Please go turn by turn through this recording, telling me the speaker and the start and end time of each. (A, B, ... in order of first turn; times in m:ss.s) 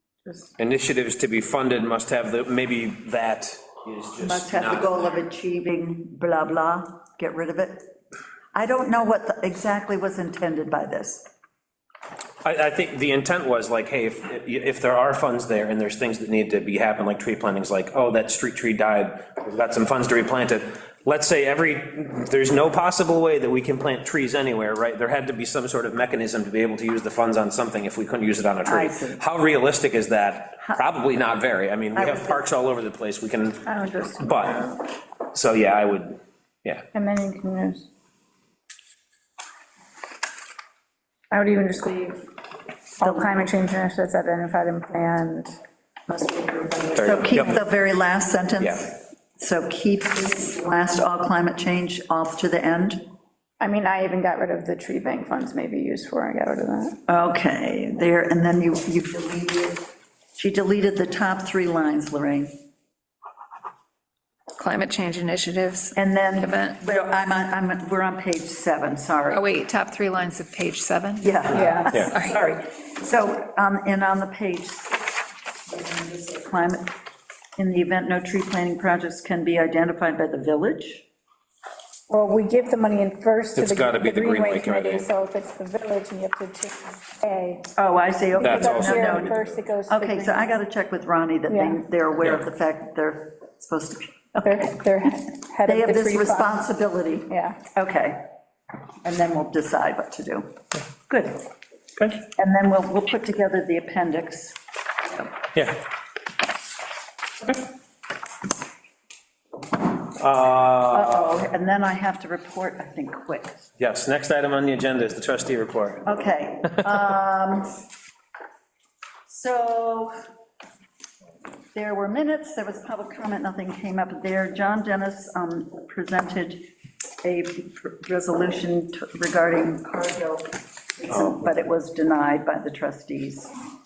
0:00.6-0:05.0 A
0:04.2-0:07.9 B
0:08.5-0:11.2 B
0:12.4-0:33.7 A
0:28.7-0:29.2 B
0:31.9-0:32.4 B
0:33.6-0:34.7 C
0:34.2-0:36.8 A
0:36.9-0:37.9 C
0:41.3-0:42.2 C
0:43.0-0:45.5 C
0:43.0-0:43.3 B
0:46.1-0:47.4 C
0:46.9-0:47.6 A
0:47.0-0:53.0 B
0:48.6-0:48.9 A
0:53.6-0:57.0 C
0:57.1-1:02.6 B
1:04.6-1:06.8 D
1:06.0-1:09.4 B
1:09.3-1:12.4 D
1:11.2-1:16.9 B
1:11.5-1:12.0 C
1:17.6-1:21.0 B
1:22.1-1:27.7 C
1:23.6-1:25.1 A
1:27.8-1:29.3 B
1:28.3-1:30.6 C
1:28.4-1:29.6 A
1:29.9-1:34.8 B
1:31.5-1:31.8 C
1:34.4-1:36.6 C
1:35.6-1:38.2 B
1:37.3-1:37.6 C
1:39.0-1:40.5 B
1:41.1-1:41.5 B
1:42.2-1:44.6 B
1:45.5-1:45.8 A
1:50.1-1:51.4 A
1:50.9-1:53.7 B
1:53.8-1:56.0 A
1:56.0-1:57.8 B
1:59.3-2:00.1 B
2:01.7-2:06.6 B
2:07.2-2:13.5 B